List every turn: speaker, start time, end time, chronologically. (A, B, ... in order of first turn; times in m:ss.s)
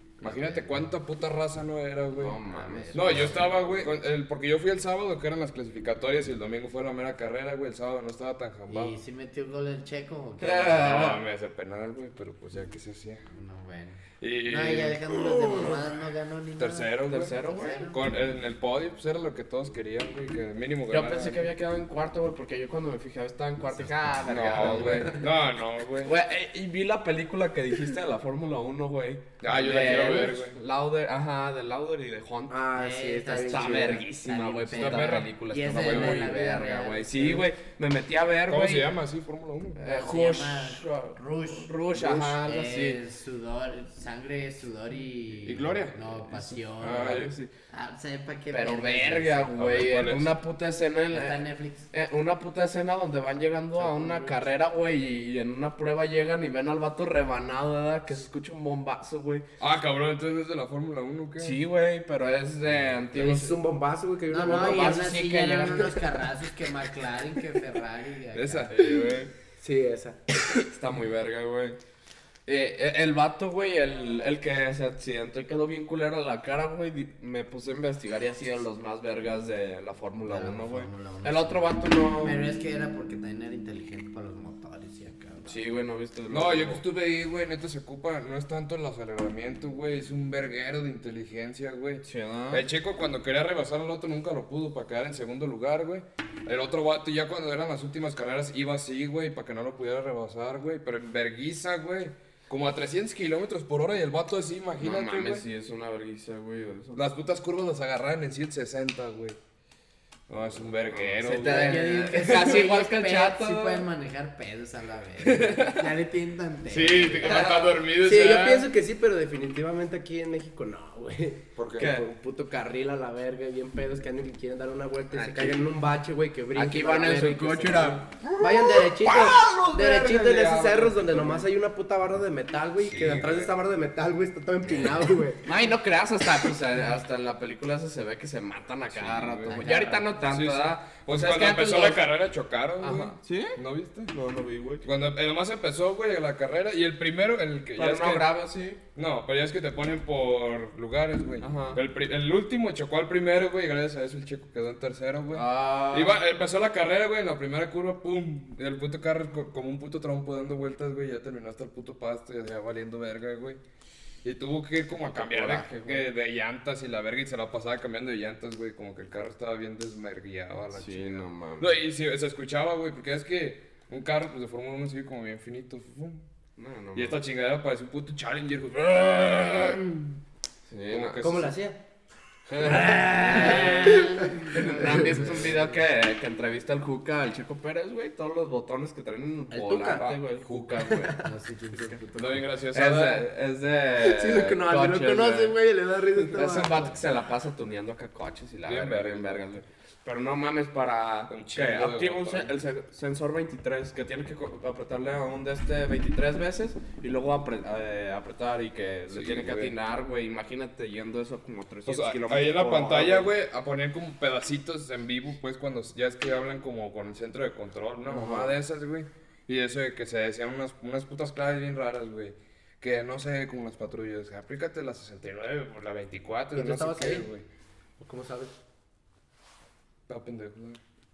0:00.2-0:02.4 A
0:00.2-0:00.9 B
0:02.1-0:03.6 C
0:02.5-0:03.6 B
0:02.9-0:09.0 A
0:08.7-0:11.0 B
0:10.4-0:11.2 C
0:10.7-0:13.2 A
0:13.3-0:18.0 B
0:14.2-0:15.7 A
0:16.6-0:21.5 A
0:17.1-0:17.8 C
0:20.9-0:25.2 C
0:23.7-0:25.1 B
0:24.2-0:26.1 A
0:26.0-0:32.6 C
0:29.4-0:30.6 A
0:32.5-0:34.0 D
0:32.7-0:37.4 B
0:33.5-0:39.0 C
0:34.7-0:36.2 A
0:38.5-0:39.8 A
0:39.8-0:43.0 C
0:39.8-0:49.5 B
0:45.5-0:46.2 A
0:46.3-0:47.5 C
0:46.8-0:47.3 A
0:48.5-0:59.4 C
0:49.6-0:50.3 A
0:51.1-0:51.9 B
0:53.8-0:54.5 B
0:59.6-1:01.6 A
1:01.4-1:03.6 C
1:03.1-1:05.1 D
1:04.3-1:08.7 B
1:04.4-1:06.0 C
1:08.3-1:09.1 A
1:08.7-1:09.3 C
1:09.6-1:10.2 D
1:10.5-1:11.8 C
1:12.5-1:22.4 C
1:20.2-1:25.6 B
1:25.5-1:26.8 C
1:26.3-1:45.4 A
1:32.0-1:32.6 C
1:44.8-1:47.1 C
1:46.9-1:49.4 A
1:50.3-1:52.4 A
1:50.4-1:53.9 C
1:51.4-1:57.7 B
1:55.2-1:55.8 C
1:56.7-1:58.7 A
1:58.0-2:15.5 D
2:01.6-2:01.9 A
2:01.8-2:02.1 C
2:05.1-2:05.7 C
2:06.5-2:09.8 C
2:09.6-2:11.5 A
2:12.8-2:13.5 A
2:15.4-2:22.1 C
2:18.9-2:24.1 A
2:19.5-2:20.1 B
2:22.8-2:24.9 C
2:24.8-2:28.4 A
2:27.8-2:28.8 C
2:28.9-2:43.6 A
2:31.4-2:31.8 C
2:35.3-2:36.2 C
2:44.2-2:56.3 A
2:44.9-2:46.1 C
2:50.7-2:51.8 C
2:56.6-2:57.2 C
2:56.9-2:59.9 A
3:00.7-3:01.2 C
3:00.9-3:01.5 A
3:01.2-3:01.8 D
3:02.6-3:11.2 C
3:02.7-3:05.7 B
3:03.5-3:04.0 D
3:09.5-3:10.2 D
3:09.9-3:10.8 A
3:10.8-3:11.3 D
3:11.2-3:12.5 B
3:12.2-3:13.3 A
3:12.7-3:15.6 C
3:14.0-3:16.9 D
3:16.3-3:33.3 C
3:18.6-3:19.5 A
3:21.3-3:22.5 A
3:29.1-3:29.8 A
3:31.9-3:47.5 A
3:38.1-3:38.5 C
3:46.5-3:47.3 D
3:48.0-3:48.5 D
3:50.1-3:50.8 A